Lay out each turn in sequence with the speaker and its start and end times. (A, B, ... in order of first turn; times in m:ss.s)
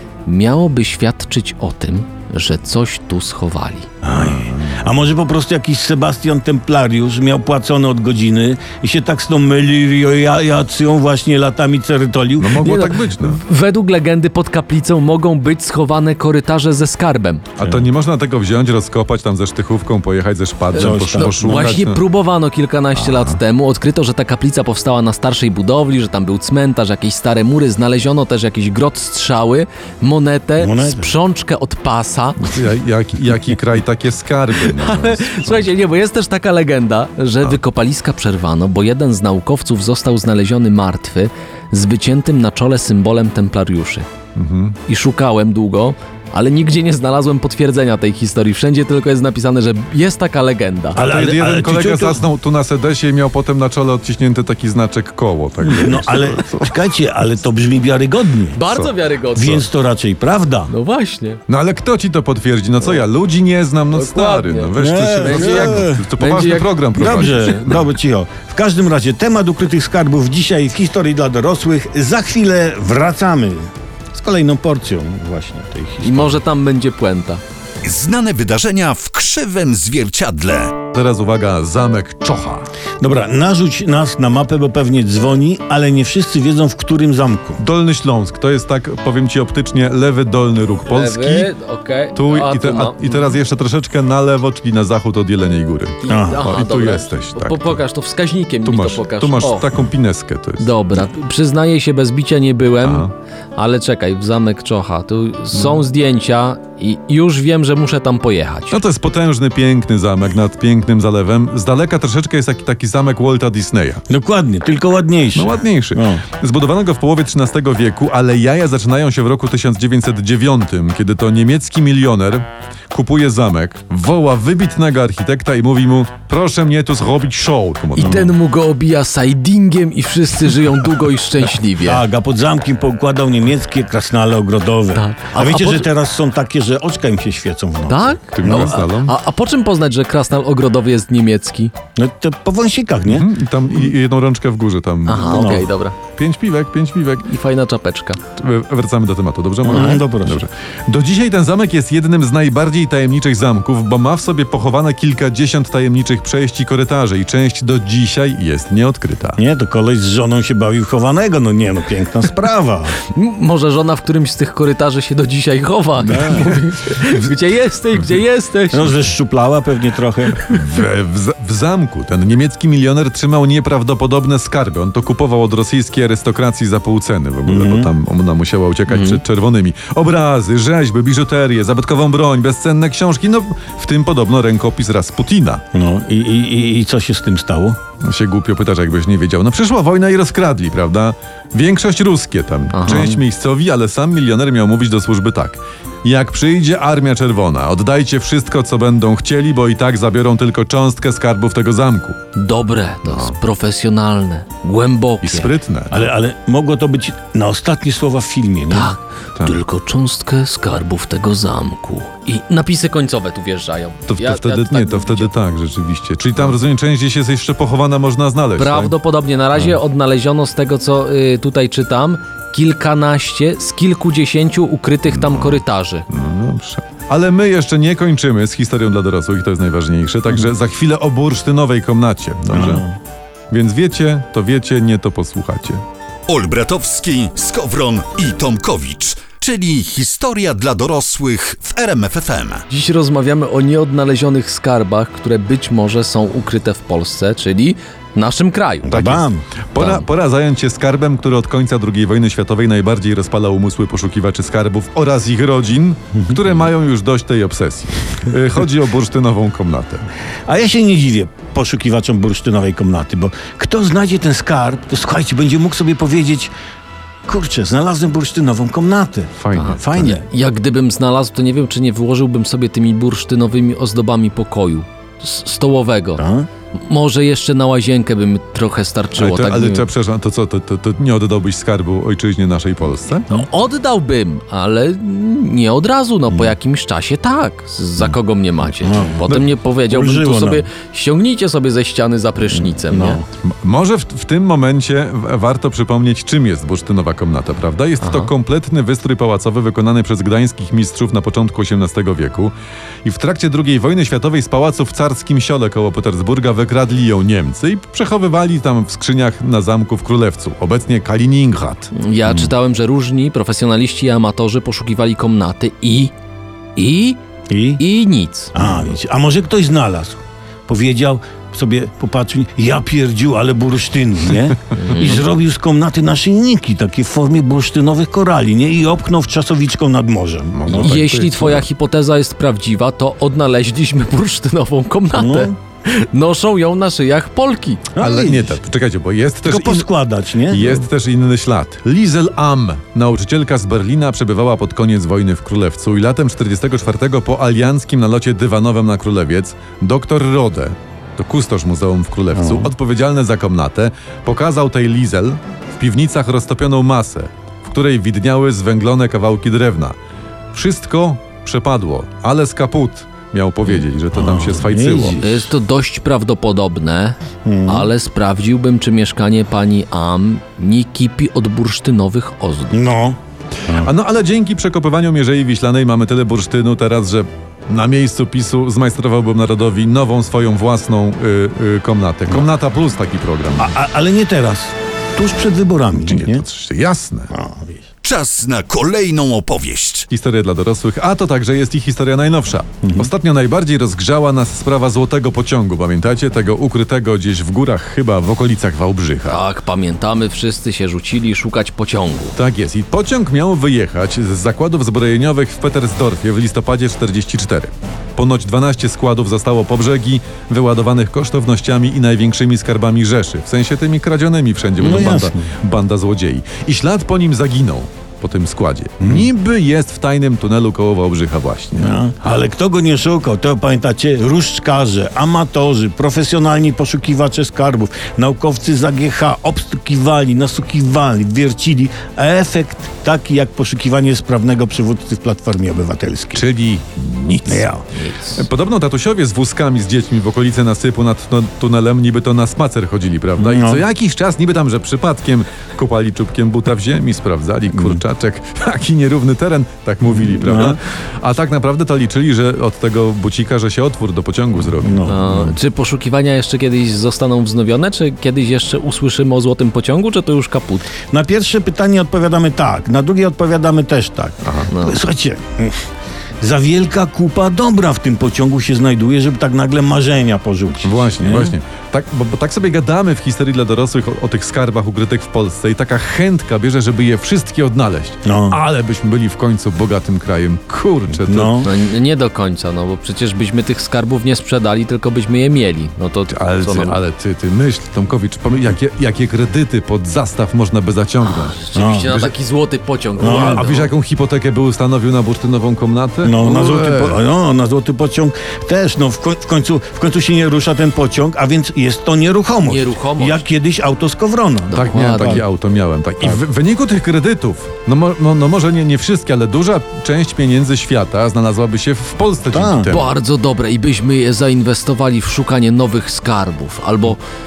0:00.2-0:03.9 A
0:04.0-0:12.6 B
0:04.1-0:04.9 C
0:12.4-0:13.4 C
0:12.6-0:17.4 A
0:17.6-0:22.0 C
0:20.7-0:21.7 B
0:20.8-0:32.6 A
0:23.0-0:23.4 C
0:30.6-0:31.1 B
0:32.4-0:35.7 C
0:34.6-0:44.1 A
0:44.4-0:44.8 C
0:44.9-0:51.0 A
0:50.9-0:52.2 B
0:51.0-0:56.8 C
0:55.6-0:58.6 B
0:58.5-0:59.6 A
0:58.7-0:58.9 C
0:59.3-1:00.7 B
1:00.7-1:01.4 A
1:01.5-1:07.8 C
1:03.9-1:06.8 A
1:04.8-1:06.0 B
1:06.9-1:16.4 B
1:16.0-1:17.4 A
1:17.8-1:20.8 D
1:20.9-1:22.7 C
1:23.0-1:27.6 B
1:27.6-1:31.5 C
1:30.9-1:33.4 A
1:32.1-1:37.8 C
1:36.0-1:39.7 A
1:36.1-1:36.5 B
1:38.6-1:40.7 C
1:40.6-1:48.8 A
1:42.8-1:43.1 C
1:48.7-1:54.0 C
1:54.1-1:56.2 B
1:55.3-2:08.3 C
2:08.0-2:12.0 A
2:08.0-2:08.3 B
2:11.8-2:18.7 B
2:14.9-2:15.9 A
2:17.9-2:21.7 A
2:18.3-2:19.1 C
2:22.0-2:23.3 B
2:23.1-2:27.2 C
2:25.0-2:26.0 A
2:25.3-2:25.7 B
2:27.2-2:28.2 A
2:28.4-2:39.4 C
2:29.6-2:30.4 B
2:39.4-2:42.9 B
2:43.1-2:49.0 A
2:46.0-2:46.5 B
2:46.2-2:46.5 C
2:48.7-2:50.4 B
2:50.5-3:05.6 C
2:57.5-2:57.9 B
2:58.9-2:59.2 A
3:05.7-3:07.8 B
3:08.0-3:22.2 C
3:12.7-3:13.1 A
3:22.3-3:25.5 A
3:23.0-3:23.4 C
3:25.2-3:26.1 C
3:25.9-3:28.9 B
3:28.7-3:35.3 A
3:34.1-3:39.0 C
3:38.6-3:46.0 A
3:45.1-3:52.9 C
3:52.5-3:52.9 B
3:53.5-3:55.8 C
3:56.3-4:02.6 D
4:02.7-4:09.0 A
4:08.8-4:09.4 B
4:08.9-4:20.0 C
4:09.8-4:10.0 A
4:20.5-4:26.5 B
4:27.2-4:30.2 B
4:29.4-4:30.1 C
4:29.5-4:36.2 A
4:36.2-4:36.5 B
4:36.8-4:39.9 A
4:39.2-4:43.3 C
4:43.3-4:53.2 A
4:46.3-4:46.5 B
4:48.8-4:50.6 B
4:52.6-4:53.2 B
4:53.4-5:02.5 C
4:58.0-4:58.3 A
5:03.0-5:12.4 C
5:11.9-5:16.1 A
5:16.8-5:17.2 A
5:17.5-5:17.8 B
5:17.8-5:18.5 A
5:18.5-5:30.9 B
5:24.7-5:25.2 A
5:30.5-5:31.7 C
5:30.8-5:37.9 A
5:35.1-5:35.5 B
5:38.0-5:38.6 B
5:38.0-5:39.9 C
5:39.4-5:40.8 B
5:40.5-5:59.9 C
5:52.3-5:52.7 B
6:00.5-6:05.2 C
6:04.1-6:05.5 B
6:05.2-6:12.9 A
6:07.4-6:07.9 B
6:12.7-6:13.9 B
6:13.8-6:23.7 C
6:23.6-6:26.4 B
6:26.0-6:27.3 C
6:27.3-6:27.8 B
6:28.0-6:30.1 D
6:30.1-6:39.4 C
6:32.8-6:33.1 B
6:39.3-6:42.4 A
6:42.4-7:02.0 C
6:54.8-6:55.5 B
6:59.0-6:59.3 B
7:01.8-7:16.4 B
7:16.3-7:17.8 C
7:17.4-7:17.8 B
7:17.9-7:18.4 A
7:18.3-7:35.4 C
7:23.4-7:23.8 B
7:27.7-7:28.0 B
7:30.2-7:30.8 B
7:34.8-7:35.2 B
7:35.0-7:40.9 A
7:41.1-7:45.8 B
7:44.4-7:44.7 C
7:44.7-7:45.0 A
7:46.4-7:51.5 B
7:50.8-8:01.7 C
7:58.2-7:58.6 B
8:01.1-8:01.7 B
8:01.6-8:07.0 A
8:06.3-8:11.6 C
8:11.2-8:13.9 A
8:11.7-8:12.2 B
8:13.2-8:17.2 C
8:13.2-8:13.6 B
8:16.2-8:25.4 B
8:22.7-8:23.4 A
8:24.7-8:25.4 A
8:24.7-8:33.1 C
8:32.5-8:32.9 B
8:32.9-8:37.2 A